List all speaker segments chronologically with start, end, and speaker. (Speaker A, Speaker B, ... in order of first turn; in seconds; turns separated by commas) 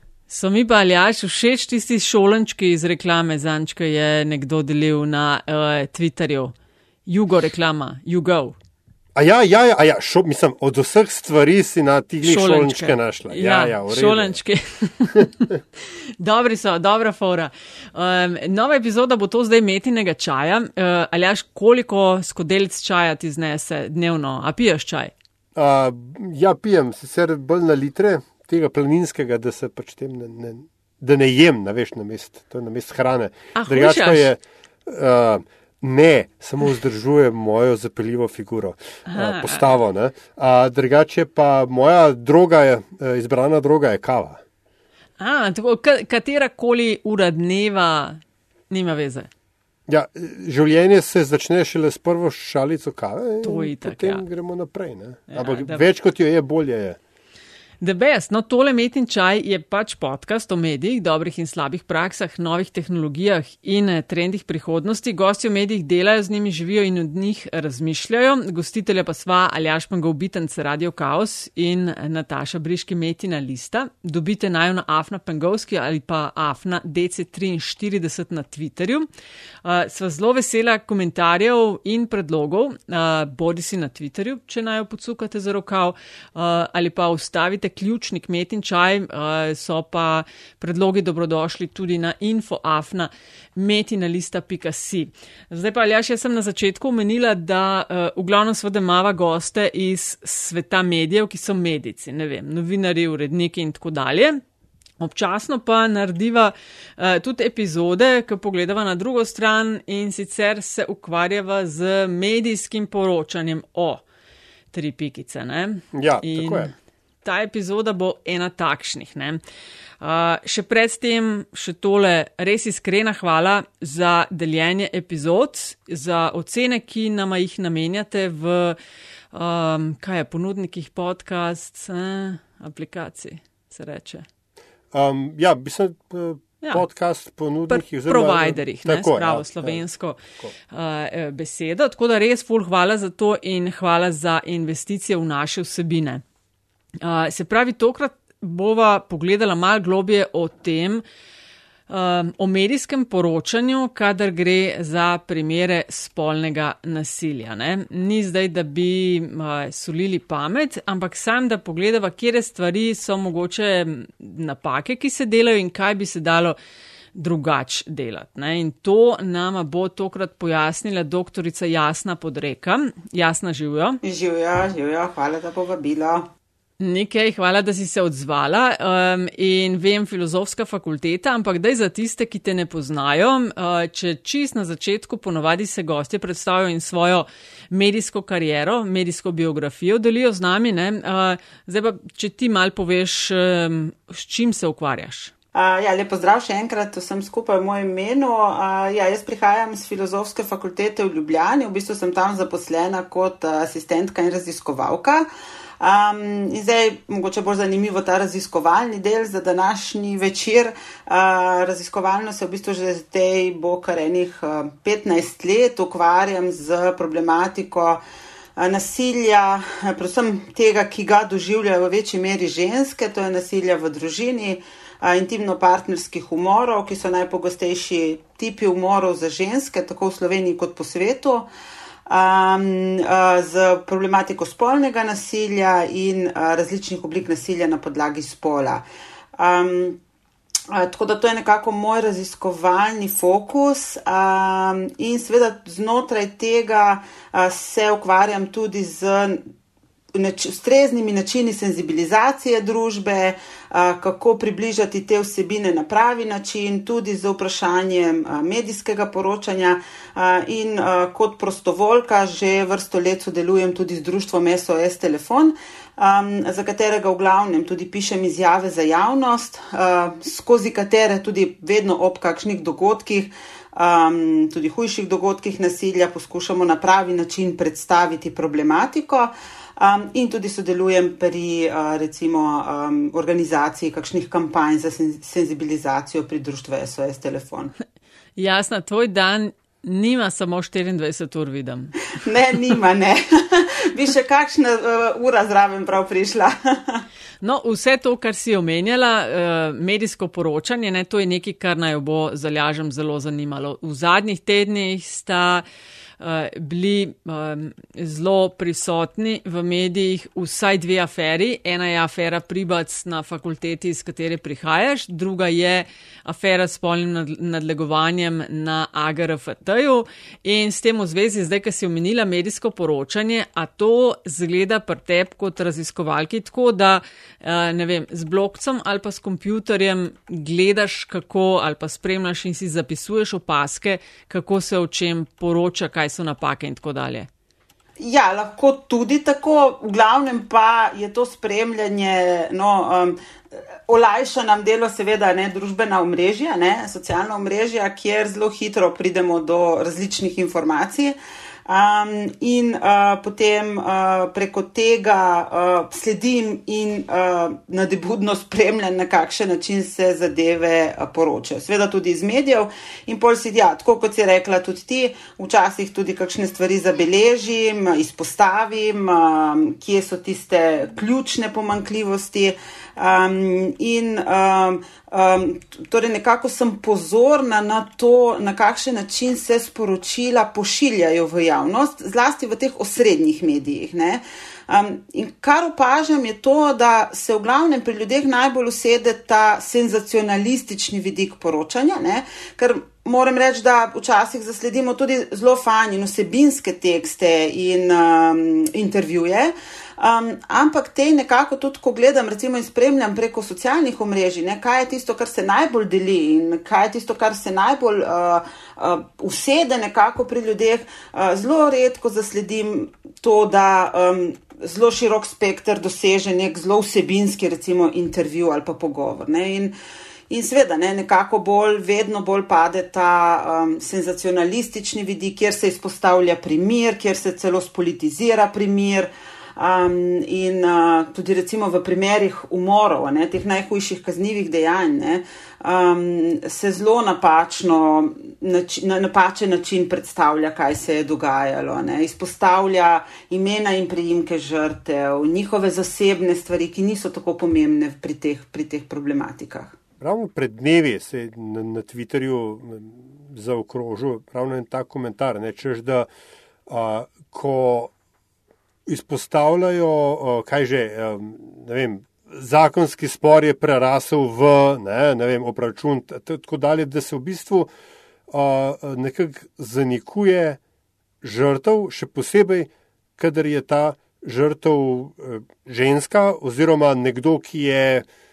Speaker A: 0.3-6.5, Speaker A: 7.1-8.5, Speaker B: 9.1-14.4, Speaker A: 12.2-15.5, Speaker A: 16.2-25.1, Speaker B: 25.5-44.4, Speaker A: 33.5-34.3, Speaker A: 39.1-39.8, Speaker A: 45.2-49.3, Speaker B: 49.9-57.0, Speaker A: 53.4-54.2, Speaker A: 55.3-55.9, Speaker A: 57.8-79.1, Speaker A: 79.6-104.4, Speaker A: 105.0-114.0, Speaker A: 114.7-116.7, Speaker B: 115.9-116.7, Speaker A: 117.2-119.4, Speaker A: 120.0-128.8, Speaker A: 129.3-134.3, Speaker B: 134.9-139.8, Speaker A: 137.7-140.2, Speaker A: 140.7-146.2, Speaker A: 147.0-151.0, Speaker A: 151.9-166.6, Speaker A: 167.1-174.0, Speaker C: 174.0-176.3, Speaker A: 176.8-195.3, Speaker C: 195.5-205.3, Speaker C: 205.8-218.0, Speaker C: 218.6-231.5, Speaker C: 232.1-238.8, Speaker C: 239.3-240.0, Speaker C: 240.7-249.4, Speaker C: 250.1-287.7, Speaker A: 288.4-292.2, Speaker C: 292.1-297.0, Speaker A: 297.4-305.6, Speaker A: 306.2-337.3, Speaker C: 338.0-343.2, Speaker C: 343.9-419.7, Speaker C: 420.3-449.8, Speaker B: 450.0-456.1, Speaker B: 456.7-457.9, Speaker B: 458.9-467.7, Speaker B: 468.3-470.6, Speaker B: 471.2-478.1